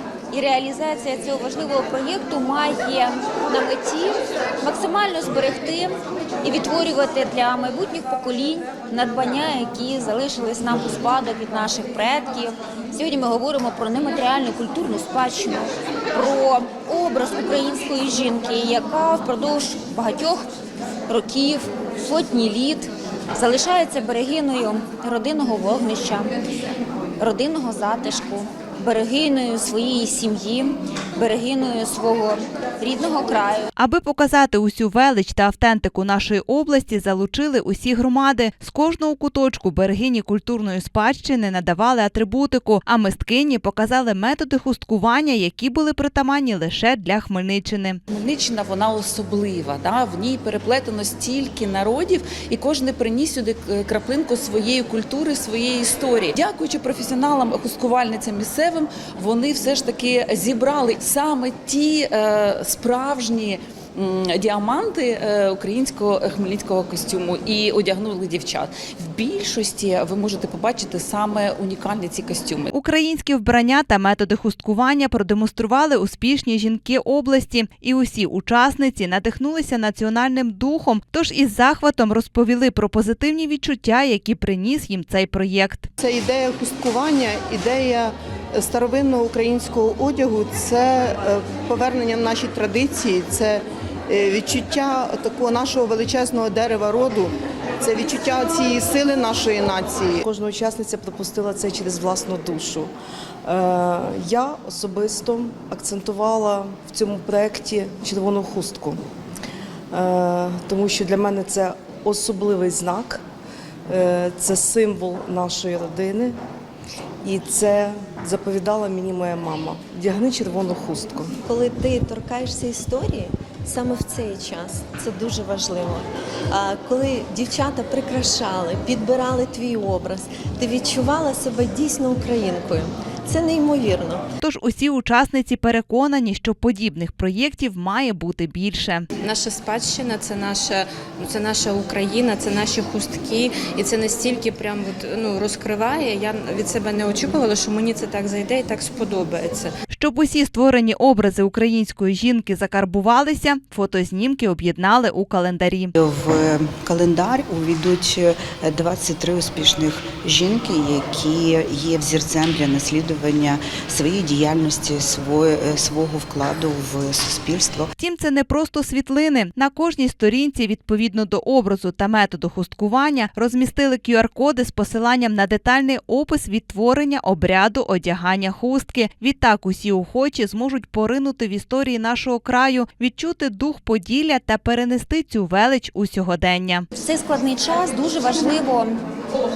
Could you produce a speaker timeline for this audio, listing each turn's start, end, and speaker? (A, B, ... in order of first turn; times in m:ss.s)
0:00.3-0:20.4 A
0:21.1-0:26.3 A
0:27.2-0:33.7 A
0:33.8-0:48.0 B
0:48.1-1:12.7 C
1:12.7-1:25.9 B
1:26.0-1:36.6 D
1:37.8-1:38.8 D
1:39.5-1:40.2 D
1:40.2-1:42.9 E
1:43.4-1:49.0 E
1:49.9-1:53.2 E
1:53.9-1:56.4 E
1:57.2-2:01.4 E
2:01.4-2:14.2 F
2:14.4-2:19.0 B
2:19.2-2:29.7 G
2:29.9-2:35.9 B
2:36.0-2:47.9 H
2:48.0-3:06.8 B
3:06.9-3:09.0 A